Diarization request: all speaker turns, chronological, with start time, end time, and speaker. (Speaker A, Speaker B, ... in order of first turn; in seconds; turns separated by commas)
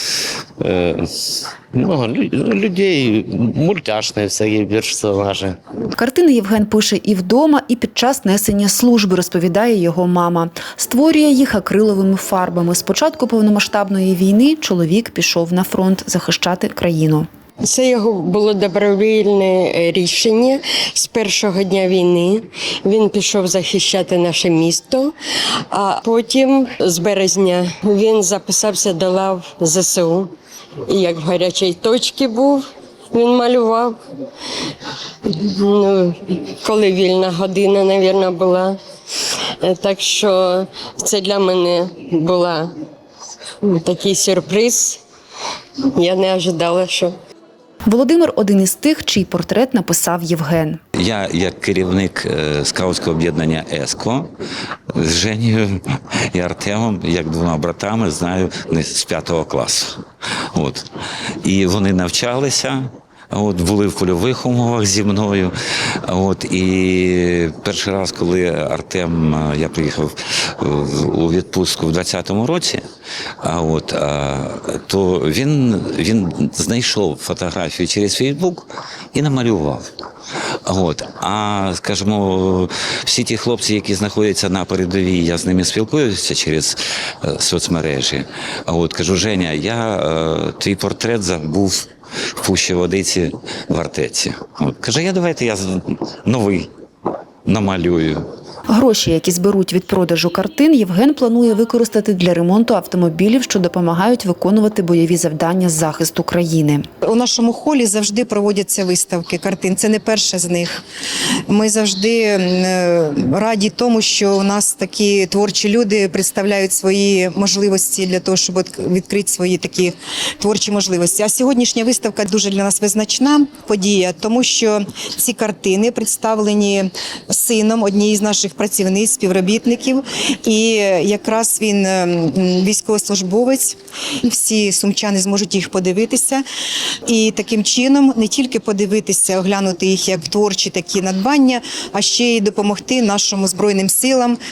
Speaker A: 0.6-5.6, Speaker B: 5.9-17.3, Speaker C: 17.6-25.1, Speaker C: 25.7-30.3, Speaker C: 30.9-34.0, Speaker C: 35.2-38.8, Speaker C: 39.6-42.7, Speaker C: 43.6-45.0, Speaker C: 46.0-47.2, Speaker B: 47.9-50.8, Speaker D: 51.0-54.3, Speaker D: 54.9-60.0, Speaker D: 60.5-60.9, Speaker D: 61.4-65.5, Speaker D: 66.1-72.8, Speaker D: 73.4-79.9, Speaker D: 80.7-96.7, Speaker D: 97.5-98.3, Speaker B: 98.7-106.9, Speaker E: 107.0-110.8, Speaker E: 111.5-136.4, Speaker E: 137.1-144.4